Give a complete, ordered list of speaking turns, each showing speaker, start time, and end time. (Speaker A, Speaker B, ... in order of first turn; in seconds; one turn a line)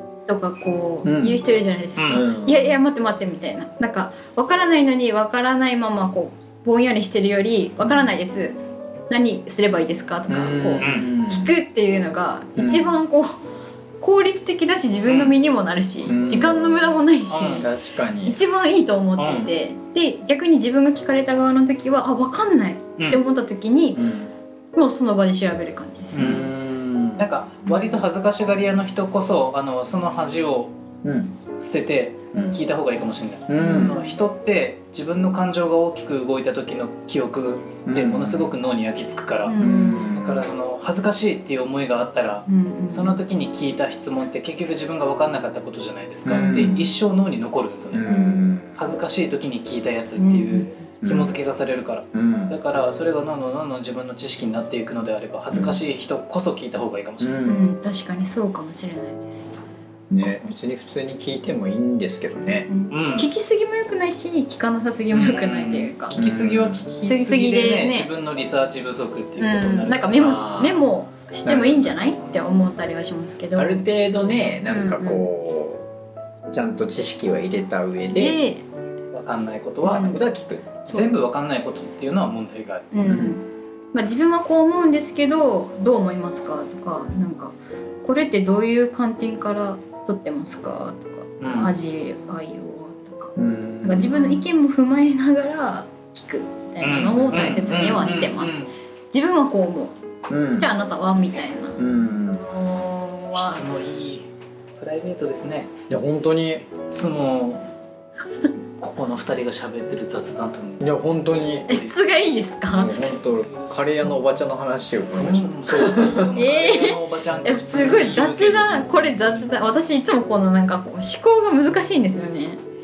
Speaker A: 0.3-8.6
Speaker B: 1.1-1.4
Speaker C: 2.0-2.3
Speaker B: 2.1-2.8
Speaker A: 9.1-13.4
Speaker B: 10.3-11.5
Speaker C: 10.8-11.1
Speaker B: 12.6-13.0
Speaker A: 14.0-17.7
Speaker C: 15.1-15.3
Speaker B: 16.1-17.0
Speaker C: 17.3-17.7
Speaker B: 17.6-18.4
Speaker A: 18.2-24.0
Speaker C: 19.2-19.5
Speaker B: 23.9-24.3
Speaker A: 24.7-26.5
Speaker C: 26.1-26.5
Speaker B: 26.1-27.3
Speaker C: 27.2-30.7
Speaker A: 27.7-28.0
Speaker B: 31.0-31.4
Speaker C: 31.6-39.6
Speaker B: 33.5-34.0
Speaker A: 33.6-34.2
Speaker B: 37.9-38.5
Speaker A: 39.5-40.1
Speaker B: 39.6-40.5
Speaker C: 40.1-48.1
Speaker A: 42.5-43.2
Speaker B: 46.2-46.9
Speaker B: 47.9-48.8
Speaker A: 48.0-48.4
Speaker C: 48.8-57.6
Speaker A: 50.2-50.7
Speaker B: 51.0-51.4
Speaker B: 52.1-52.5
Speaker B: 55.5-55.8
Speaker B: 57.2-57.6
Speaker A: 57.5-59.6
Speaker B: 60.1-62.7
Speaker A: 62.7-66.2
Speaker C: 62.9-63.3
Speaker C: 65.1-70.5
Speaker B: 66.1-66.9
Speaker A: 67.0-68.1
Speaker A: 69.4-73.9
Speaker B: 70.2-70.8
Speaker B: 71.5-72.3
Speaker B: 73.5-75.9
Speaker A: 74.6-75.3
Speaker B: 76.5-78.4
Speaker A: 78.1-78.6
Speaker C: 79.1-80.2
Speaker B: 79.8-80.8
Speaker C: 80.9-82.9
Speaker A: 82.9-99.9
Speaker B: 83.0-83.4
Speaker C: 91.4-91.7
Speaker B: 93.4-94.5
Speaker C: 96.8-98.7
Speaker B: 100.3-100.7
Speaker A: 100.5-103.7
Speaker B: 101.8-102.5
Speaker C: 103.3-104.3
Speaker C: 104.8-105.7
Speaker B: 105.9-106.7
Speaker C: 106.9-107.7
Speaker C: 108.8-112.0
Speaker B: 110.8-111.7
Speaker A: 111.7-113.0
Speaker B: 112.7-116.4
Speaker C: 112.8-114.3
Speaker C: 115.1-119.5
Speaker A: 116.3-122.6